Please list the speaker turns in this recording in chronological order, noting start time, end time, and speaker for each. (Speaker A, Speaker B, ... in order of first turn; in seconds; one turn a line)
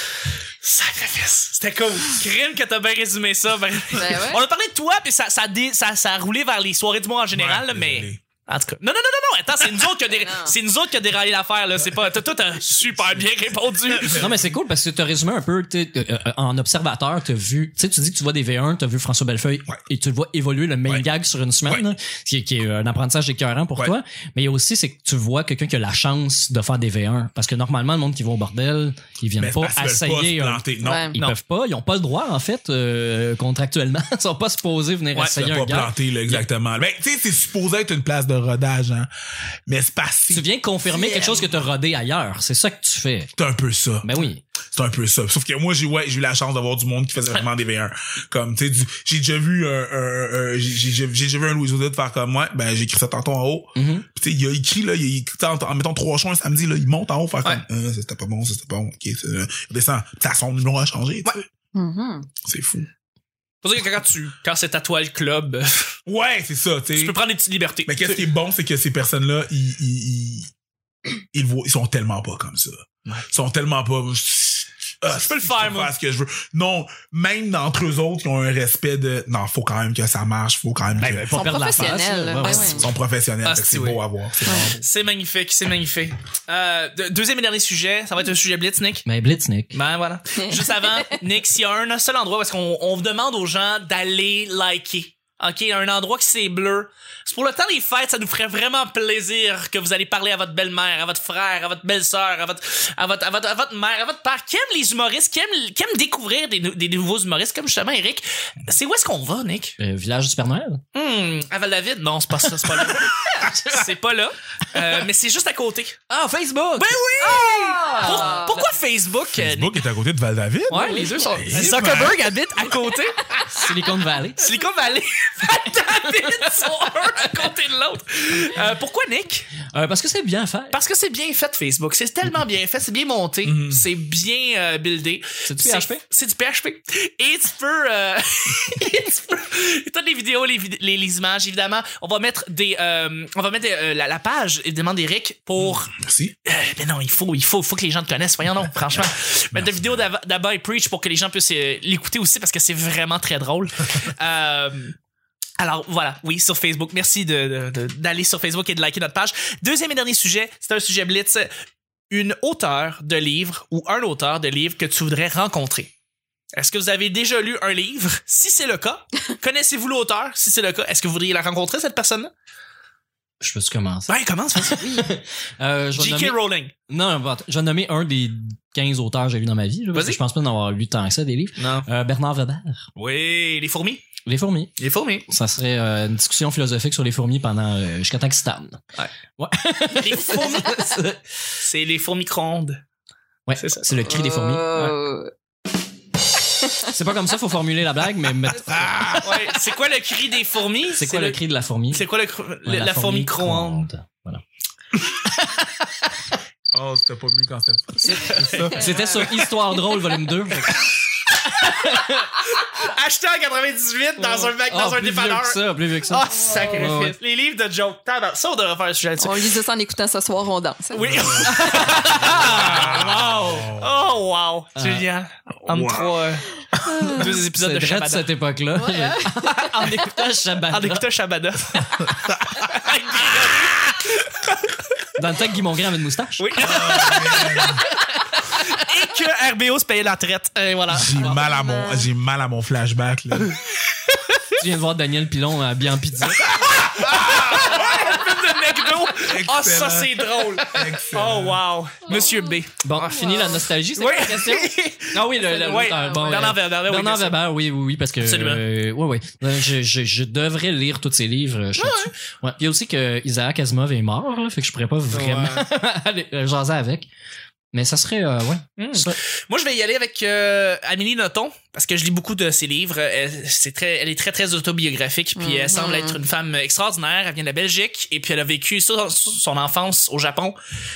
Speaker A: 0.6-14.2
Speaker B: 3.9-4.4
Speaker C: 7.3-8.2
Speaker B: 10.0-10.6
Speaker C: 13.9-14.6
Speaker D: 14.2-36.4
Speaker C: 29.4-31.1
Speaker B: 30.8-31.2
Speaker C: 35.3-39.1
Speaker C: 39.7-40.5
Speaker D: 40.3-43.3
Speaker B: 40.9-41.5
Speaker C: 43.4-44.1
Speaker D: 44.0-44.4
Speaker C: 44.7-61.4
Speaker D: 53.8-54.1
Speaker B: 61.7-62.3
Speaker C: 62.4-62.9
Speaker A: 63.6-66.0
Speaker C: 66.1-67.2
Speaker A: 67.0-68.3
Speaker C: 67.9-70.5
Speaker C: 71.3-81.7
Speaker A: 75.1-75.9
Speaker D: 81.0-82.9
Speaker B: 81.3-82.9
Speaker C: 82.5-84.8
Speaker A: 83.4-89.0
Speaker B: 84.5-84.7
Speaker D: 89.0-89.8
Speaker A: 89.7-109.8
Speaker B: 90.4-91.2
Speaker D: 109.8-110.8
Speaker A: 110.9-116.0
Speaker C: 112.9-113.5
Speaker D: 116.1-118.5
Speaker A: 116.8-119.8
Speaker B: 117.4-118.7
Speaker C: 119.3-122.2
Speaker A: 120.7-123.7
Speaker D: 121.5-122.0
Speaker D: 123.5-124.5
Speaker A: 124.4-129.5
Speaker D: 129.7-130.8
Speaker A: 130.7-145.9
Speaker C: 133.4-133.8
Speaker D: 135.5-136.0
Speaker C: 145.6-146.3
Speaker A: 146.4-155.0
Speaker A: 155.6-161.5
Speaker A: 162.1-165.9
Speaker A: 166.5-172.3
Speaker D: 173.4-176.4
Speaker A: 174.1-175.1
Speaker A: 176.0-176.7
Speaker D: 176.9-182.9
Speaker A: 179.9-180.2
Speaker A: 181.6-181.9
Speaker A: 183.0-184.1
Speaker D: 184.2-184.7
Speaker A: 184.8-185.3
Speaker D: 185.3-188.8
Speaker D: 189.4-191.1
Speaker A: 189.9-192.8
Speaker D: 193.5-195.0
Speaker A: 193.6-194.0
Speaker B: 194.0-195.3
Speaker D: 196.8-199.0
Speaker C: 198.5-199.5
Speaker A: 199.2-201.4
Speaker D: 201.0-202.1
Speaker A: 201.9-203.8
Speaker D: 202.7-204.4
Speaker C: 206.7-208.9
Speaker A: 208.0-209.4
Speaker D: 208.1-210.9
Speaker B: 208.7-209.5
Speaker A: 210.7-219.6
Speaker D: 211.6-212.3
Speaker D: 214.3-217.2
Speaker B: 219.2-222.3
Speaker A: 220.9-226.5
Speaker C: 221.0-224.1
Speaker D: 221.7-223.6
Speaker D: 224.8-225.0
Speaker C: 225.6-227.1
Speaker B: 226.9-227.3
Speaker A: 227.1-228.3
Speaker D: 227.2-231.0
Speaker B: 228.8-229.8
Speaker A: 230.7-234.5
Speaker C: 232.2-233.2
Speaker D: 235.2-236.6
Speaker A: 236.4-241.4
Speaker C: 236.6-237.9
Speaker C: 240.9-243.6
Speaker B: 241.2-242.1
Speaker A: 244.1-244.4
Speaker D: 244.6-246.6
Speaker A: 246.4-257.4
Speaker C: 246.5-248.2
Speaker B: 247.8-248.2
Speaker C: 249.1-251.6
Speaker D: 252.8-267.1
Speaker B: 255.4-256.6
Speaker A: 258.2-258.6
Speaker A: 261.8-262.1
Speaker A: 265.1-265.7
Speaker D: 267.7-269.2
Speaker A: 268.8-280.6
Speaker B: 275.4-276.2